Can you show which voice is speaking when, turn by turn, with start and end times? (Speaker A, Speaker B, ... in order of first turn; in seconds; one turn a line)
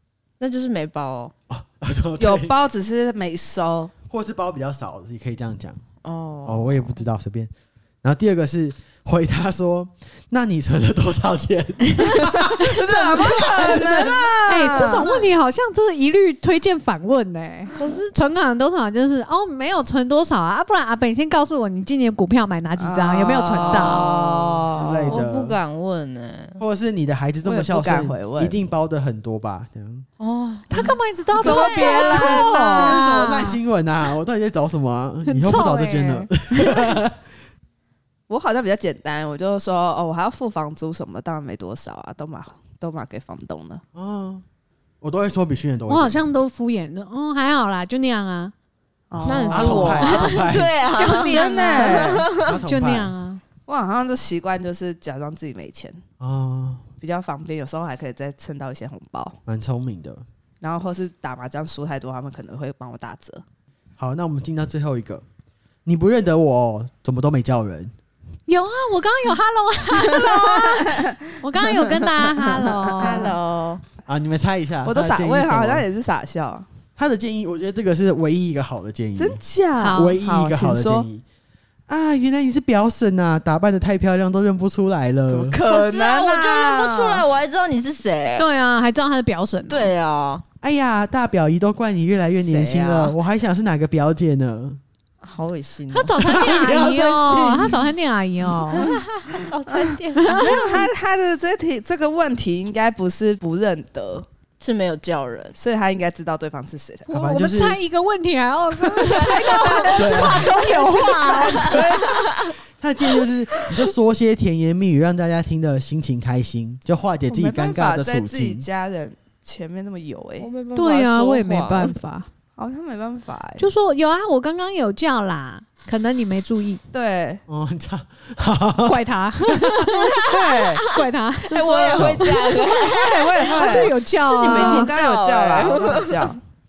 Speaker A: 0.4-1.3
Speaker B: 1.5-2.5
Speaker C: 2.2-3.9
Speaker B: 4.1-5.8
Speaker A: 6.0-7.0
Speaker B: 6.4-7.5
Speaker B: 8.0-15.3
Speaker C: 12.4-15.1
Speaker D: 14.5-24.0
Speaker A: 17.8-18.1
Speaker C: 22.8-25.2
Speaker B: 23.7-25.6
Speaker A: 24.8-26.6
Speaker B: 26.6-30.1
Speaker C: 27.4-28.6
Speaker A: 30.2-30.7
Speaker D: 30.7-33.6
Speaker C: 31.4-32.9
Speaker A: 31.4-33.0
Speaker B: 32.1-37.2
Speaker D: 35.3-36.7
Speaker C: 38.3-43.8
Speaker B: 43.9-44.4
Speaker B: 45.0-46.2
Speaker D: 45.9-48.5
Speaker C: 49.1-50.1
Speaker A: 49.2-52.5
Speaker D: 49.3-53.4
Speaker B: 49.5-50.7
Speaker C: 51.2-52.3
Speaker B: 52.4-53.1
Speaker C: 53.7-56.0
Speaker B: 56.2-56.8
Speaker C: 57.0-59.4
Speaker B: 59.5-60.2
Speaker C: 60.6-63.4
Speaker B: 64.0-65.2
Speaker B: 65.8-67.9
Speaker D: 68.5-73.3
Speaker C: 70.0-73.3
Speaker A: 73.0-73.8
Speaker B: 74.1-75.8
Speaker C: 74.8-76.7
Speaker B: 77.0-79.4
Speaker C: 79.2-81.1
Speaker D: 79.8-80.1
Speaker B: 79.9-81.2
Speaker B: 81.9-85.6
Speaker C: 85.3-87.2
Speaker A: 85.6-88.5
Speaker D: 88.4-89.9
Speaker A: 89.7-90.4
Speaker B: 90.6-94.8
Speaker C: 92.4-93.1
Speaker A: 95.2-96.2
Speaker D: 95.9-98.8
Speaker B: 96.2-97.8
Speaker A: 98.8-100.6
Speaker C: 99.7-104.2
Speaker D: 100.2-100.9
Speaker A: 104.6-105.6
Speaker C: 105.6-107.1
Speaker B: 107.1-107.8
Speaker D: 107.1-111.8
Speaker A: 109.0-112.5
Speaker C: 109.2-112.2
Speaker B: 110.0-110.5
Speaker B: 112.8-118.7
Speaker C: 117.3-120.5
Speaker A: 120.4-122.0
Speaker D: 120.7-122.2
Speaker C: 122.6-123.6
Speaker D: 123.6-126.8
Speaker C: 126.9-127.4
Speaker B: 127.5-130.0
Speaker D: 128.8-130.3
Speaker A: 130.2-130.7
Speaker C: 130.2-130.8
Speaker D: 130.8-132.8
Speaker A: 131.5-136.3
Speaker B: 131.9-132.2
Speaker C: 132.7-136.4
Speaker D: 133.3-134.9